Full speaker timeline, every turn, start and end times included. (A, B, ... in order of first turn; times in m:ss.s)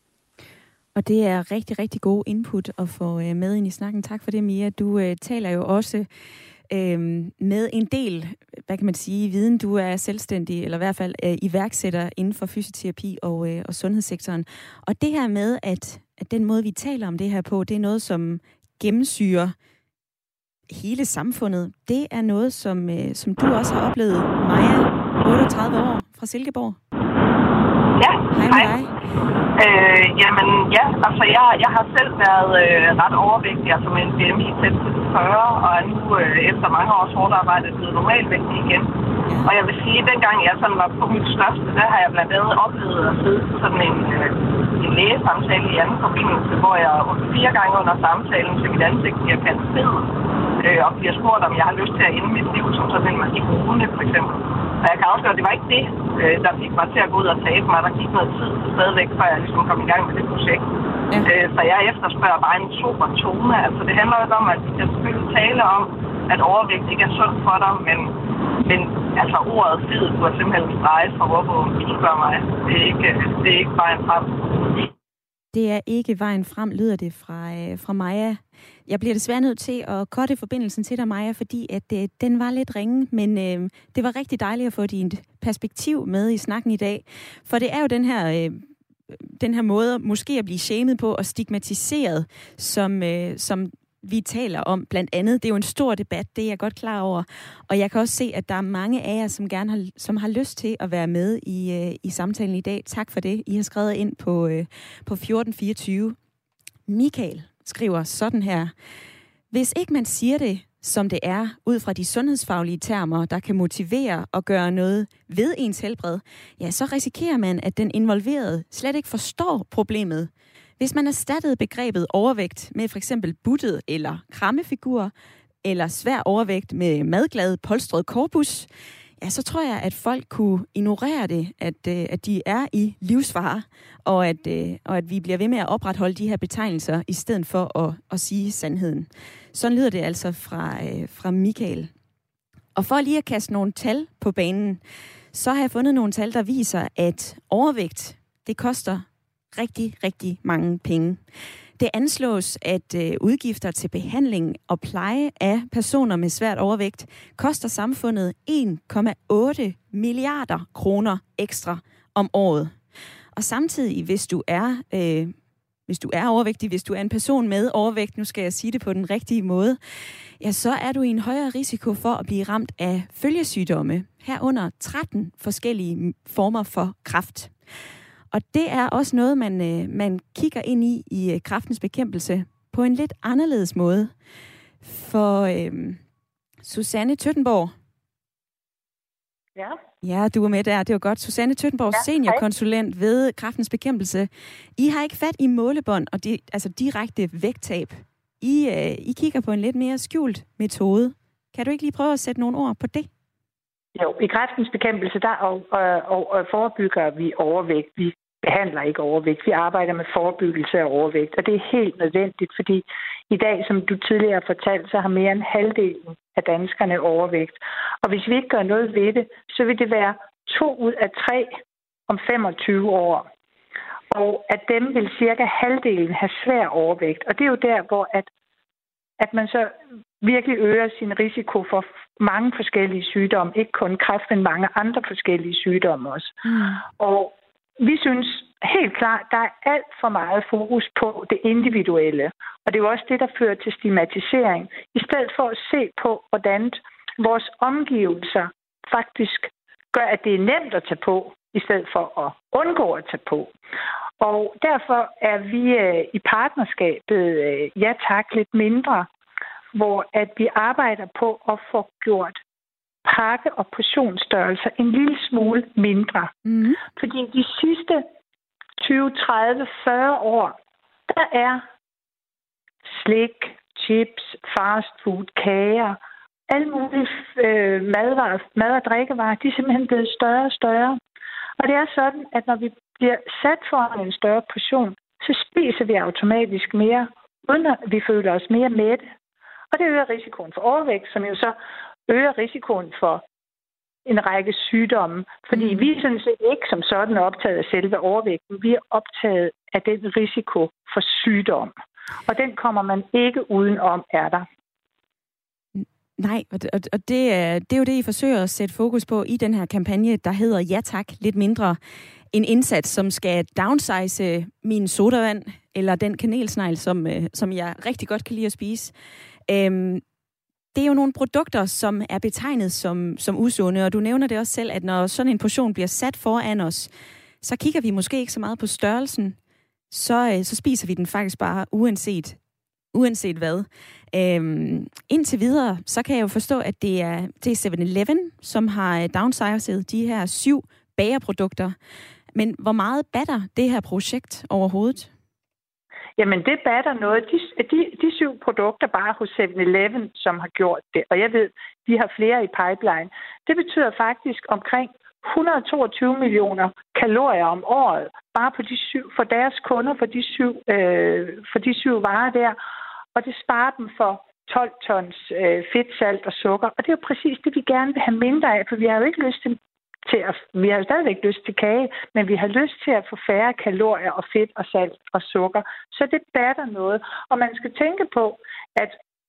0:00.9-0:06.1 A
0:06.7-0:19.5 A
0:20.7-0:26.8 A
0:28.0-0:28.7 B
0:28.3-0:28.9 A
0:29.6-1:00.7 B
1:01.2-1:14.4 B
1:15.5-1:46.2 A
1:46.9-1:48.7 A
1:49.5-2:05.1 A
2:05.6-2:08.7 A
2:09.2-2:21.9 A
2:22.7-2:24.8 A
2:25.3-2:31.2 A
2:31.8-2:42.7 A
2:43.3-2:45.3 A
2:45.9-2:49.8 A
2:50.4-2:57.5 A
2:58.3-3:04.1 A
3:04.8-3:06.0 A
3:06.6-3:07.7 A
3:10.0-3:23.1 A
3:11.9-3:12.4 C
3:24.0-3:41.5 C
3:42.1-3:43.3 C
3:44.1-3:48.3 C
3:49.2-3:56.4 C
3:56.4-3:56.8 A
3:56.9-4:13.5 C
4:14.2-4:19.1 C
4:19.7-4:22.4 C
4:23.0-4:26.3 C
4:26.4-4:26.8 A
4:26.9-4:28.0 C
4:28.8-4:30.5 C
4:31.1-4:31.6 C
4:32.9-4:41.0 C
4:41.6-4:49.0 C
4:49.7-4:51.5 C
4:52.1-4:53.2 C
4:54.0-5:01.7 C
4:55.5-4:55.9 A
5:02.3-5:04.4 C
5:05.7-5:11.8 A
5:12.3-5:18.9 A
5:19.5-5:20.0 A
5:20.7-5:26.9 A
5:27.4-5:29.4 A
5:29.9-5:32.4 A
5:32.9-5:41.7 A
5:42.3-5:45.1 A
5:46.2-6:02.6 C
6:03.1-6:19.0 C